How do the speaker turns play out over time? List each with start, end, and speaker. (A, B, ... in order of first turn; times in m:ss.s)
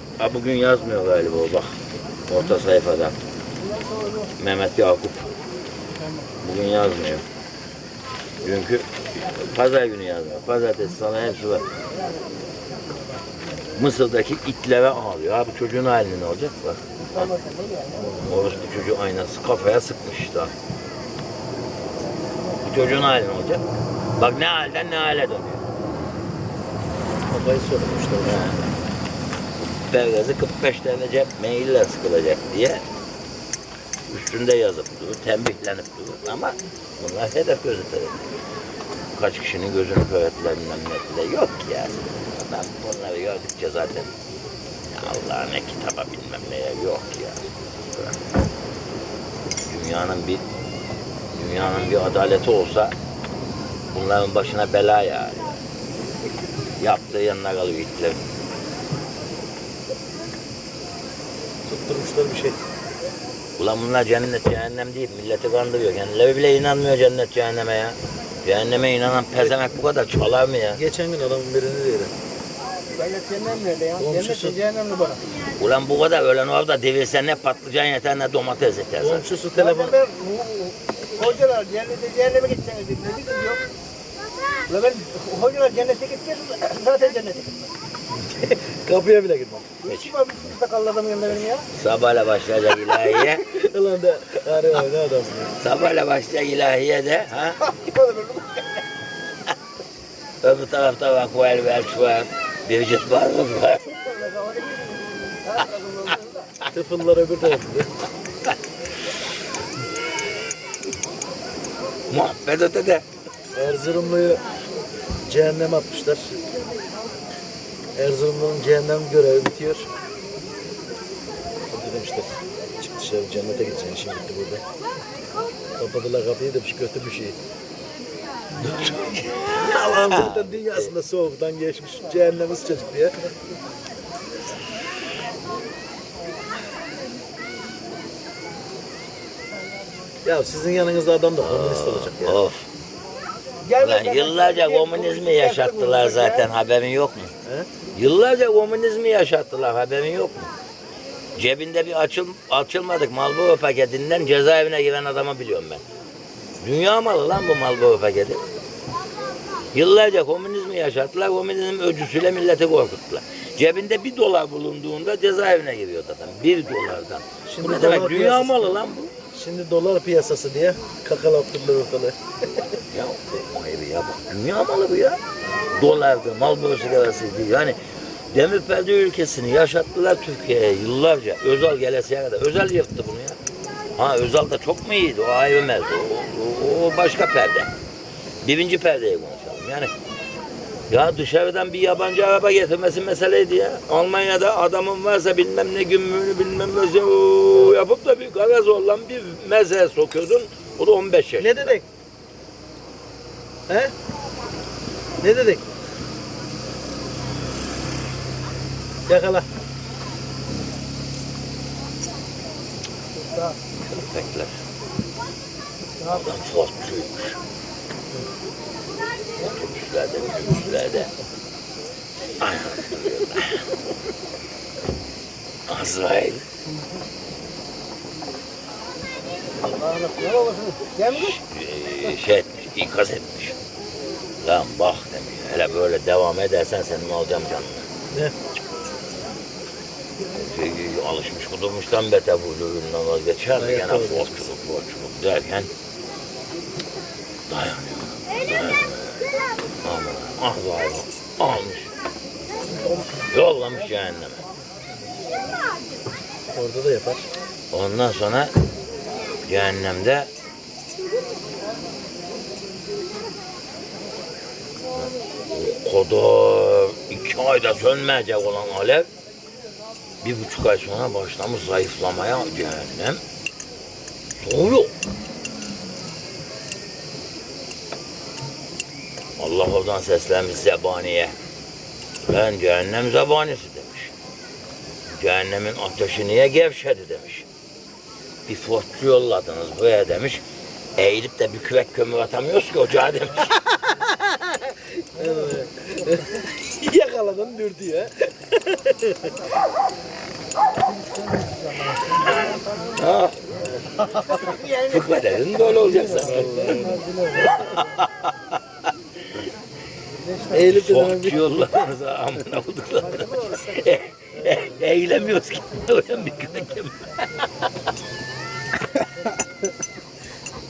0:00.2-0:03.2 A
0:04.4-0:05.3 A
0:06.4-0:07.2 A
0:08.4-0:11.7 A
0:13.7-0:17.4 A
0:18.0-0:20.5 A
0:22.6-0:23.6 A
0:24.2-0:25.6 A
0:27.3-0:28.7 B
0:28.2-0:28.6 A
0:29.7-0:32.8 A
0:34.1-0:38.3 A
0:39.1-0:44.1 A
0:44.8-0:48.2 A
0:49.6-0:50.4 A
0:51.3-0:53.0 A
0:53.9-0:55.5 A
0:56.8-0:58.2 A
1:01.7-1:02.6 B
1:03.6-1:10.8 A
1:10.7-1:12.1 B
1:12.9-1:15.3 C
1:14.0-1:14.6 B
1:15.6-1:19.4 A
1:19.0-1:20.0 B
1:19.6-1:23.6 C
1:24.7-1:27.6 C
1:28.1-1:29.8 B
1:29.8-1:31.7 C
1:29.9-1:30.2 A
1:31.3-1:33.4 A
1:33.5-1:35.5 B
1:35.6-1:37.6 A
1:37.6-1:38.8 C
1:40.4-1:44.0 A
1:44.0-1:46.5 C
1:46.7-1:47.9 B
1:52.1-1:53.0 A
1:53.5-1:54.4 B
1:55.2-1:56.3 B
1:58.0-1:59.9 B
2:01.7-2:04.6 B
2:05.8-2:07.4 B
2:08.6-2:10.9 A
2:09.6-2:13.2 B
2:20.2-2:22.4 B
2:21.4-2:22.7 A
2:23.7-2:26.5 C
2:23.8-2:27.3 A
2:28.0-2:30.5 A
2:31.4-2:35.8 A
2:36.6-2:38.4 A
2:39.7-2:49.1 A
2:47.5-2:48.7 B
2:49.3-2:52.6 B
2:52.9-2:55.2 A
2:55.8-2:57.8 A
2:58.3-3:03.4 A
3:04.0-3:07.7 A
3:08.4-3:09.9 A
3:10.9-3:21.8 A
3:21.4-3:21.8 B
3:25.2-3:25.6 B
3:29.1-3:29.5 B
3:33.8-3:34.6 A
3:36.0-3:37.4 A
3:39.4-3:41.1 A
3:42.4-3:43.7 A
3:45.7-3:46.4 A
3:49.6-3:51.4 C
3:51.0-3:53.6 A
3:54.4-3:57.9 A
4:00.3-4:05.7 A
4:03.6-4:04.5 B
4:07.5-4:09.2 A
4:09.8-4:11.9 A
4:13.3-4:14.5 A
4:16.5-4:17.2 B
4:17.7-4:18.5 A
4:19.4-4:20.3 A
4:25.0-4:29.1 A
4:30.2-4:33.2 A
4:34.4-4:34.9 A
4:39.4-4:41.4 A
4:42.2-4:44.1 A
4:45.1-4:47.5 A
4:48.5-4:50.4 A
4:51.0-4:53.6 A
4:53.9-4:59.4 B
5:02.2-5:03.6 A
5:04.1-5:05.2 C
5:04.7-5:08.6 A
5:06.0-5:07.5 C
5:06.3-5:07.0 B
5:10.5-5:11.6 B
5:10.6-5:17.6 A
5:14.4-5:14.7 B